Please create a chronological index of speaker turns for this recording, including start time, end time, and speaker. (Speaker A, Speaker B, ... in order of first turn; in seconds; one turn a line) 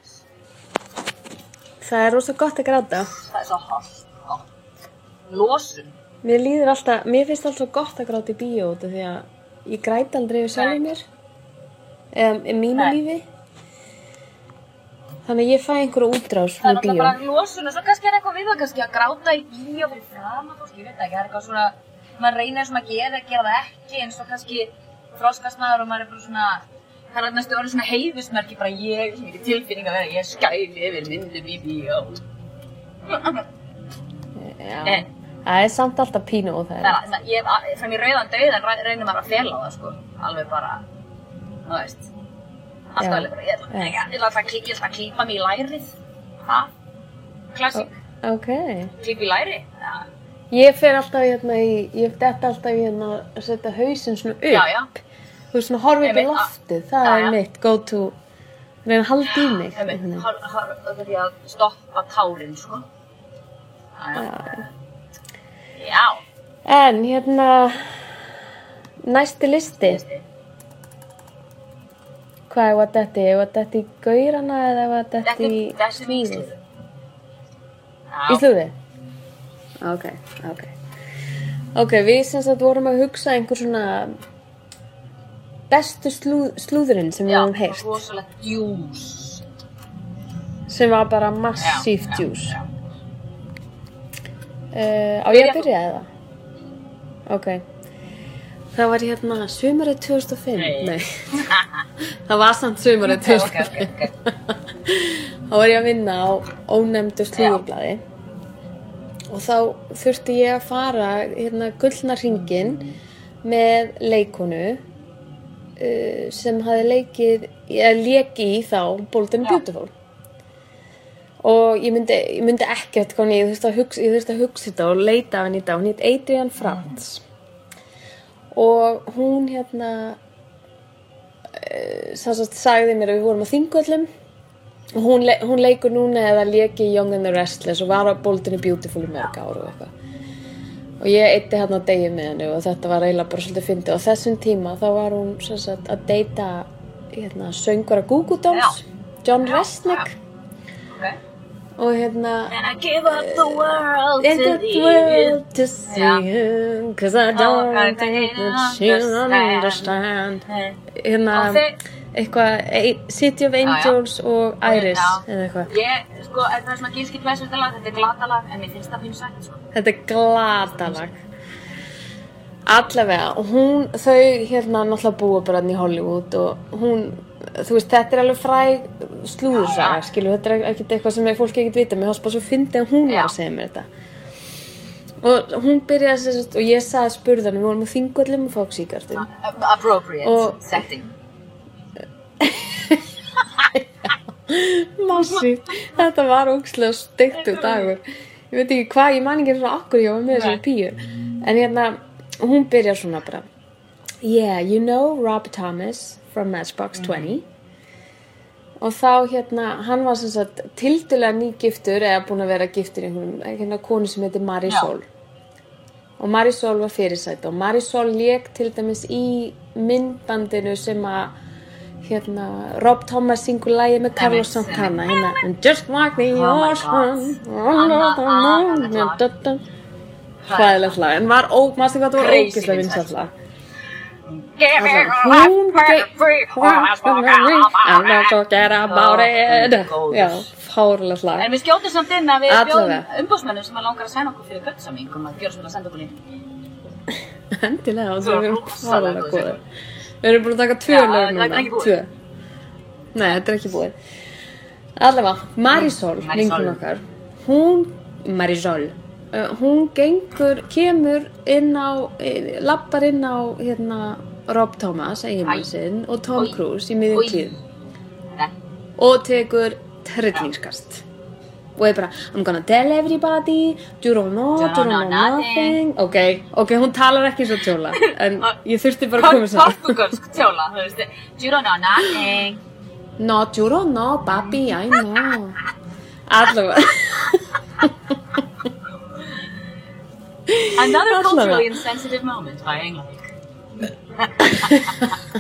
Speaker A: 1.8-3.1
Speaker B: 3.2-4.4
Speaker B: 5.3-6.0
Speaker A: 6.2-11.0
Speaker B: 10.5-10.8
Speaker A: 12.1-13.2
Speaker A: 15.2-17.2
Speaker B: 16.6-32.2
Speaker B: 33.1-33.4
Speaker A: 34.4-37.0
Speaker B: 34.8-35.1
Speaker B: 36.8-40.8
Speaker B: 41.7-42.1
Speaker B: 42.9-46.7
Speaker A: 43.0-44.0
Speaker B: 47.5-47.9
Speaker A: 47.7-48.9
Speaker B: 49.0-50.1
Speaker A: 50.5-54.7
Speaker B: 54.5-54.9
Speaker A: 55.5-58.1
Speaker B: 56.0-56.5
Speaker B: 57.0-57.4
Speaker A: 58.9-60.2
Speaker B: 59.3-62.9
Speaker B: 64.0-64.7
Speaker A: 64.1-64.6
Speaker B: 65.8-66.2
Speaker A: 66.7-68.2
Speaker A: 69.0-70.0
Speaker B: 69.8-70.2
Speaker A: 72.5-76.5
Speaker B: 75.2-76.6
Speaker B: 78.1-78.5
Speaker A: 78.3-78.7
Speaker A: 79.8-80.7
Speaker A: 81.7-84.1
Speaker A: 85.7-88.0
Speaker B: 87.2-89.4
Speaker A: 90.7-92.5
Speaker B: 91.6-92.7
Speaker A: 94.7-96.1
Speaker B: 95.3-95.7
Speaker A: 97.3-97.6
Speaker A: 98.7-101.5
Speaker B: 100.5-101.7
Speaker A: 102.3-108.0
Speaker B: 103.0-104.1
Speaker B: 107.4-107.6
Speaker A: 109.3-112.9
Speaker A: 113.4-114.8
Speaker A: 115.8-119.9
Speaker A: 121.4-127.2
Speaker A: 128.5-130.2
Speaker A: 131.5-134.1
Speaker A: 134.9-139.9
Speaker A: 141.0-150.1
Speaker B: 148.5-148.8
Speaker B: 149.4-150.1
Speaker B: 150.9-151.2
Speaker A: 151.8-152.6
Speaker B: 152.5-156.2
Speaker A: 153.1-165.7
Speaker B: 157.3-159.9
Speaker B: 160.5-160.8
Speaker B: 161.3-161.8
Speaker B: 163.6-164.0
Speaker B: 164.6-169.6
Speaker A: 169.7-171.2
Speaker A: 172.7-183.9
Speaker B: 179.6-180.0
Speaker B: 183.1-183.3
Speaker A: 185.2-189.3
Speaker B: 189.1-191.1
Speaker A: 190.2-190.8
Speaker A: 192.4-193.0
Speaker A: 194.5-203.4
Speaker B: 197.3-197.9
Speaker B: 200.3-200.6
Speaker A: 204.2-207.4
Speaker B: 206.9-207.3
Speaker A: 208.8-215.1
Speaker B: 214.7-214.9
Speaker A: 216.2-221.3
Speaker A: 222.0-229.6
Speaker B: 224.1-225.3
Speaker B: 226.3-229.2
Speaker B: 230.4-231.0
Speaker A: 230.5-233.3
Speaker B: 232.2-233.1
Speaker B: 234.3-240.5
Speaker A: 234.8-241.5
Speaker B: 241.4-246.2
Speaker A: 242.5-243.1
Speaker A: 247.5-249.6
Speaker B: 248.2-249.6
Speaker A: 250.2-252.1
Speaker B: 250.9-252.0
Speaker A: 253.1-253.9
Speaker A: 255.0-267.6
Speaker B: 255.7-256.8
Speaker B: 267.1-267.6
Speaker A: 269.0-271.1
Speaker A: 271.8-280.0
Speaker B: 274.6-275.8
Speaker B: 277.9-278.5
Speaker B: 279.2-282.6
Speaker A: 283.2-285.6
Speaker A: 286.3-287.9
Speaker A: 290.5-291.7
Speaker B: 290.7-293.3
Speaker B: 294.2-295.1
Speaker A: 294.6-294.9